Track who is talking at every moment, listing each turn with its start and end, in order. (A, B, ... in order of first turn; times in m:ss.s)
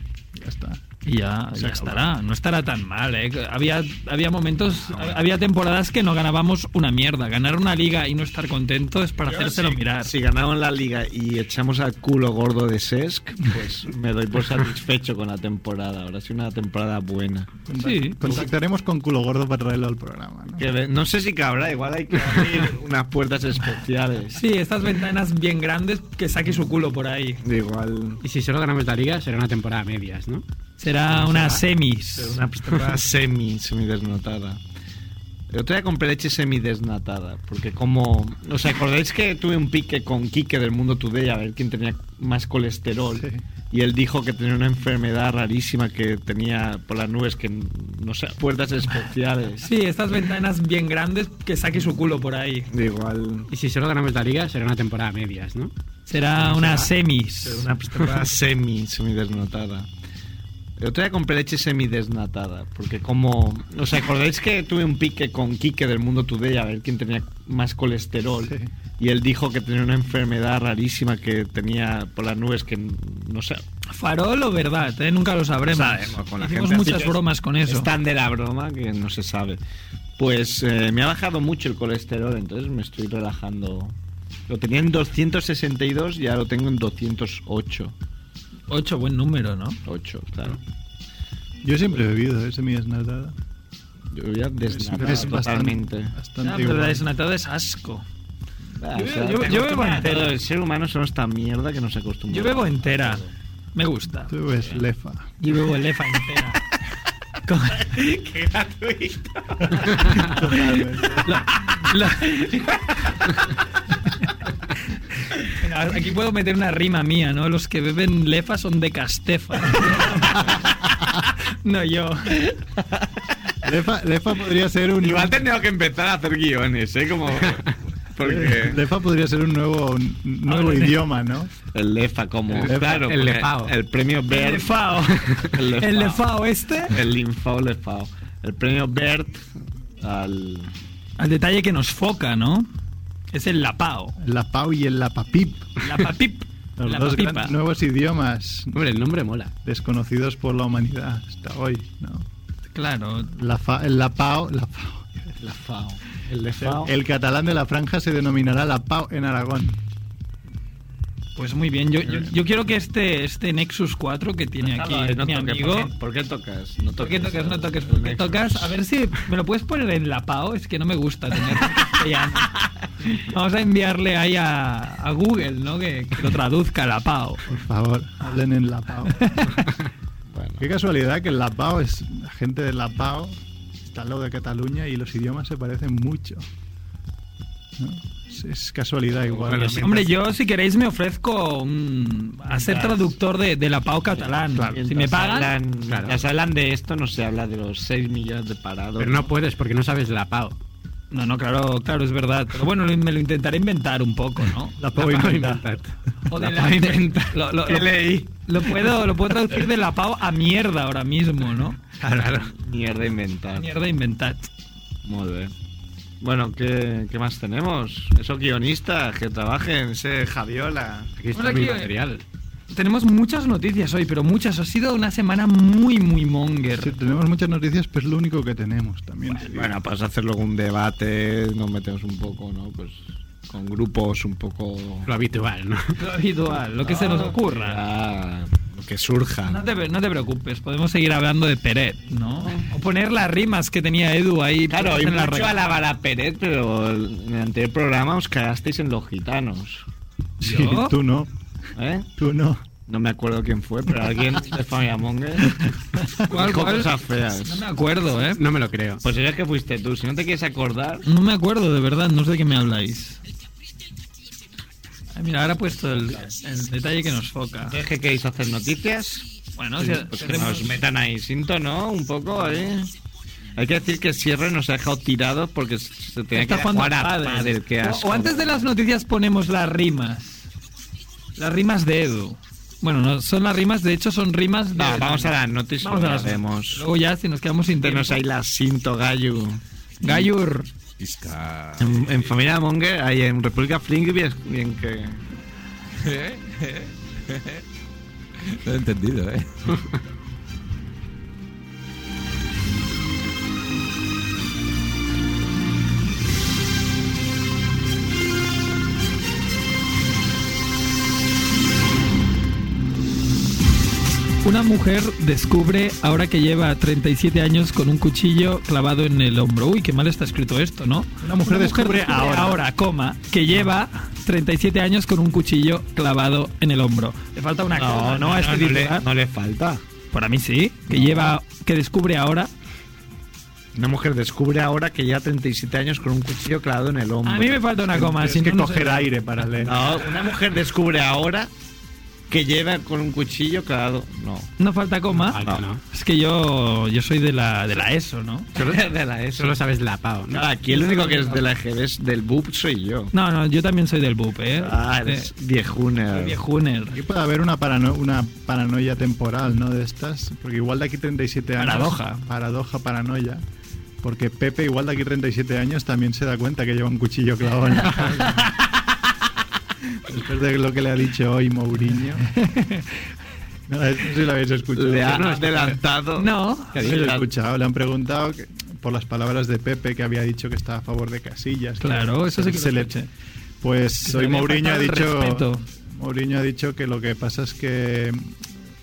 0:00.3-0:00.8 A
0:01.0-0:10.1 B
0:01.6-0:02.0 C
0:04.8-0:05.2 C
0:09.3-0:17.5 C
0:17.6-0:20.6 A
0:17.7-0:18.3 B
0:20.6-0:24.4 C
0:24.3-0:27.4 B
0:27.4-0:28.2 C
0:28.2-0:30.4 D
0:30.8-0:32.4 B
0:31.1-0:31.6 D
0:32.2-0:34.6 C
0:35.5-0:49.7 C
0:43.2-0:43.4 A
0:49.6-0:52.7 B
0:52.7-0:53.5 C
0:53.5-0:55.7 D
0:56.1-0:57.7 B
0:56.4-0:56.9 D
0:57.4-0:59.9 C
1:00.8-1:13.6 C
1:13.9-1:17.9 B
1:15.7-1:19.6 C
1:20.2-1:24.0 C
1:24.5-1:27.9 C
1:28.7-1:29.8 B
1:29.8-1:30.6 C
1:31.6-1:33.4 A
1:34.1-1:36.2 C
1:34.7-1:37.1 A
1:36.4-1:38.0 B
1:38.8-1:43.3 C
1:39.0-1:40.3 B
1:42.3-1:43.2 B
1:43.7-1:44.3 B
1:44.3-1:45.3 A
1:45.4-1:46.6 B
1:47.5-1:48.0 B
1:47.8-1:50.3 C
1:49.8-1:51.4 A
1:51.2-1:52.6 B
1:52.5-1:53.1 C
1:55.4-2:00.6 B
2:01.6-2:02.5 B
2:03.6-2:05.4 A
2:05.0-2:08.8 C
2:08.2-2:11.5 A
2:10.5-2:11.0 B
2:11.7-2:16.2 C
2:12.6-2:13.0 A
2:12.6-2:13.7 D
2:14.3-2:16.9 B
2:16.9-2:19.5 C
2:20.0-2:20.7 C
2:21.2-2:22.7 B
2:23.3-2:24.2 B
2:24.2-2:25.7 A
2:25.8-2:27.5 B
2:26.8-2:28.8 A
2:28.7-2:29.5 D
2:29.6-2:32.2 A
2:32.7-2:33.3 B
2:33.3-2:35.4 A
2:35.4-2:36.9 C
2:36.6-2:39.8 A
2:41.4-2:45.9 B
2:44.6-2:48.8 C
2:47.0-2:57.5 B
2:57.5-2:59.5 A
2:59.2-2:59.6 B
3:00.3-3:00.6 C
3:00.6-3:06.4 A
3:07.8-3:10.1 A
3:09.3-3:09.8 C
3:09.5-3:09.8 D
3:09.8-3:15.5 B
3:12.5-3:13.2 C
3:14.1-3:19.3 C
3:14.5-3:14.8 A
3:15.9-3:16.2 D
3:19.0-3:20.6 D
3:21.1-3:24.8 B
3:24.8-3:25.7 A
3:24.9-3:25.9 D
3:26.3-3:31.8 B
3:26.3-3:28.4 C
3:32.2-3:33.7 C
3:33.6-3:34.5 B
3:35.0-3:35.5 C
3:36.2-3:41.1 C
3:41.2-3:42.2 D
3:41.3-3:41.9 B
3:42.7-3:46.9 B
3:46.8-3:49.7 A
3:49.4-3:55.1 C
3:55.0-3:55.9 D
3:56.0-3:57.8 B
3:56.8-3:59.6 C
3:59.5-4:05.6 B
4:04.7-4:09.8 C
4:10.4-4:11.0 B
4:10.4-4:11.3 A
4:11.8-4:12.1 C
4:12.2-4:12.6 A
4:12.9-4:15.6 C
4:16.2-4:17.6 C
4:16.3-4:18.4 B
4:18.4-4:19.0 D
4:19.0-4:21.0 C
4:21.0-4:23.2 B
4:25.1-4:27.8 B
4:27.6-4:29.2 C
4:29.6-4:30.8 B
4:29.8-4:32.9 C
4:33.6-4:38.7 C
4:36.3-4:40.5 B
4:41.4-4:48.2 B
4:44.7-4:46.8 C
4:47.8-4:50.2 C
4:50.0-4:50.7 B
4:51.0-4:52.3 E
4:51.8-4:55.2 C
4:56.0-4:57.6 E
4:58.4-4:59.8 E
5:14.4-5:29.0 B
5:21.2-5:22.6 A
5:27.7-5:29.8 C
5:30.1-5:32.5 B
5:30.9-5:31.3 C
5:33.7-5:37.6 C
5:37.2-5:39.1 B
5:37.9-5:39.8 A
5:39.6-5:41.5 C
5:42.3-5:44.5 C
5:44.6-5:48.5 B
5:45.2-5:45.8 D
5:45.4-5:45.6 C
5:48.5-5:49.6 C
5:49.4-5:50.4 D
5:50.3-5:53.1 C
5:50.7-5:51.4 B
5:53.1-5:55.3 B
5:54.6-5:56.4 C
5:56.1-5:57.0 B
5:56.9-6:03.4 A
6:01.6-6:02.2 B
6:04.0-6:08.5 A
6:10.0-6:12.3 A
6:12.3-6:12.9 B
6:13.7-6:15.4 A
6:14.7-6:17.3 C
6:15.0-6:15.8 D
6:16.2-6:16.7 B
6:16.7-6:17.1 D
6:16.8-6:23.0 A
6:21.8-6:23.1 B
6:23.6-6:28.4 A
6:24.0-6:25.6 B